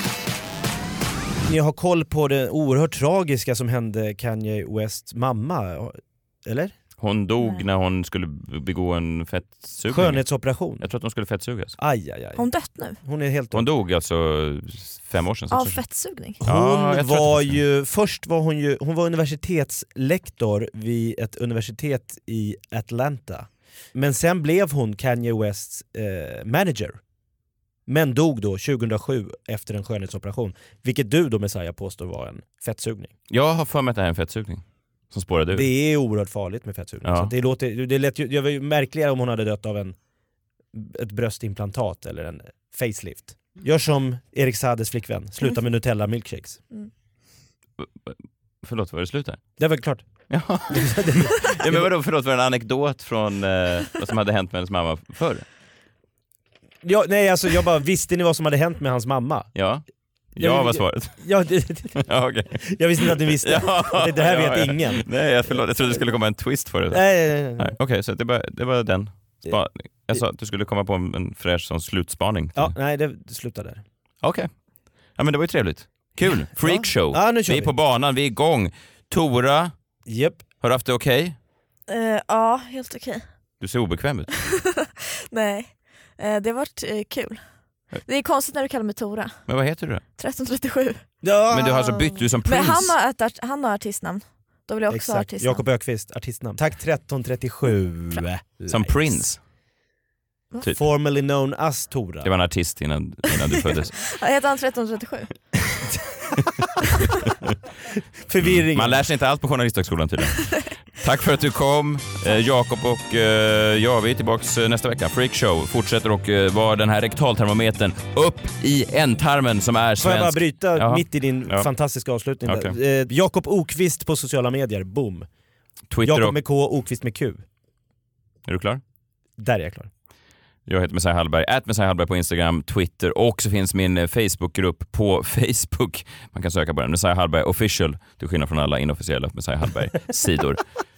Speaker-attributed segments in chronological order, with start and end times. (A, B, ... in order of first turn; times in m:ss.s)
0:01.5-0:06.7 A
0:07.0-0:10.2 B
0:09.9-0:10.8 A
0:10.8-0:11.8 B
0:11.8-0:13.6 A
0:12.4-0:13.0 C
0:13.5-0:15.8 B
0:15.5-0:16.4 C
0:16.4-0:27.0 A
0:16.4-0:17.6 B
0:27.9-0:33.1 A
0:33.3-0:35.7 B
0:35.5-0:40.0 A
0:37.0-0:37.3 B
0:40.7-0:46.6 A
0:47.8-0:48.1 B
0:48.6-0:49.4 B
0:49.6-0:50.1 A
0:50.3-0:55.4 B
0:50.7-0:51.9 A
0:56.8-0:59.5 A
0:59.6-0:59.8 B
1:00.4-1:01.2 B
1:00.4-1:02.0 A
1:02.0-1:07.0 B
1:02.6-1:05.6 A
1:06.9-1:07.7 A
1:07.6-1:12.7 B
1:12.6-1:13.8 A
1:14.2-1:14.5 B
1:15.2-1:19.7 B
1:16.6-1:17.7 A
1:20.1-1:20.4 A
1:20.6-1:21.4 B
1:21.9-1:23.2 C
1:23.6-1:24.3 B
1:24.4-1:27.4 C
1:28.0-1:29.4 C
1:29.5-1:30.0 B
1:30.2-1:31.0 C
1:31.2-1:32.1 A
1:31.5-1:32.9 B
1:32.4-1:35.6 C
1:34.9-1:39.2 A
1:38.7-1:39.4 B
1:40.7-1:42.3 A
1:42.2-1:44.0 B
1:44.1-1:45.3 C
1:48.3-1:49.0 A
1:48.4-2:01.7 B
2:00.0-2:05.3 A
2:02.5-2:02.8 B
2:05.9-2:06.4 B
2:06.0-2:07.4 A
2:08.5-2:08.8 B
2:09.4-2:09.9 A
2:10.7-2:20.6 B